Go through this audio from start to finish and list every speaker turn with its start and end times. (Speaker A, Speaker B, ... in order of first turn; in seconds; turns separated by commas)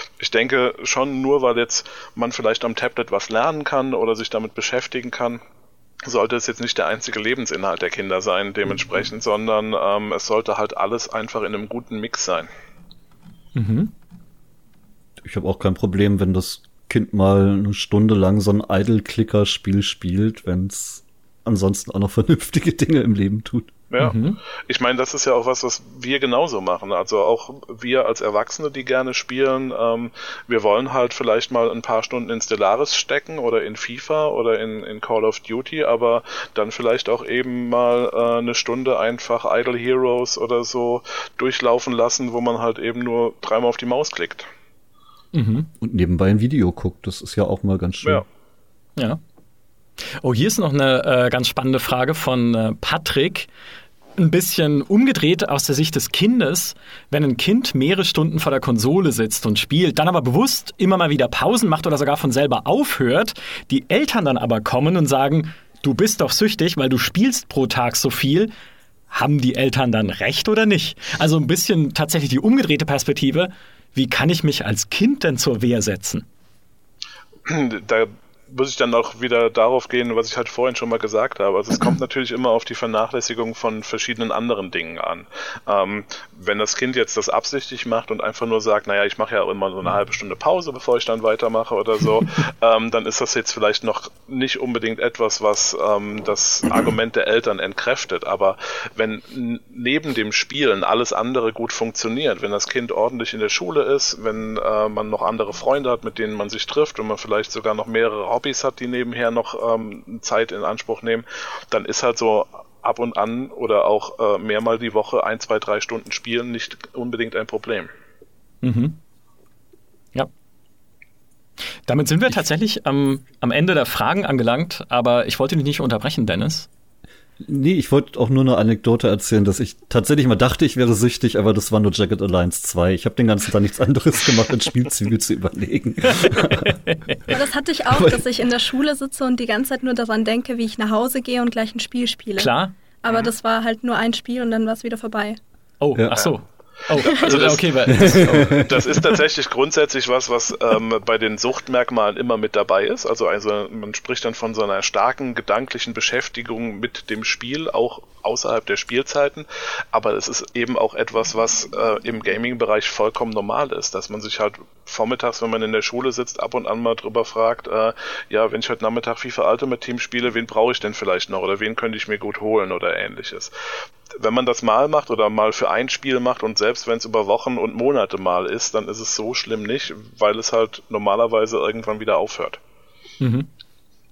Speaker A: 0.2-5.4, Speaker A: 6.0-12.5, Speaker B: 13.5-13.9, Speaker C: 15.2-23.7, Speaker A: 23.9-44.5, Speaker B: 24.0-24.4, Speaker B: 45.3-45.7, Speaker C: 45.8-48.2, Speaker B: 50.0-53.5, Speaker B: 54.2-68.5, Speaker B: 69.1-76.3, Speaker A: 77.5-117.9, Speaker B: 118.6-119.0, Speaker B: 121.9-126.7, Speaker C: 127.4-136.8, Speaker B: 136.1-137.2, Speaker D: 137.3-142.5, Speaker C: 137.9-138.2, Speaker B: 142.4-142.7, Speaker D: 143.0-145.4, Speaker B: 145.8-148.9, Speaker A: 147.0-173.5, Speaker D: 147.0-147.3, Speaker C: 147.9-148.8, Speaker A: 174.1-182.6, Speaker B: 183.2-183.5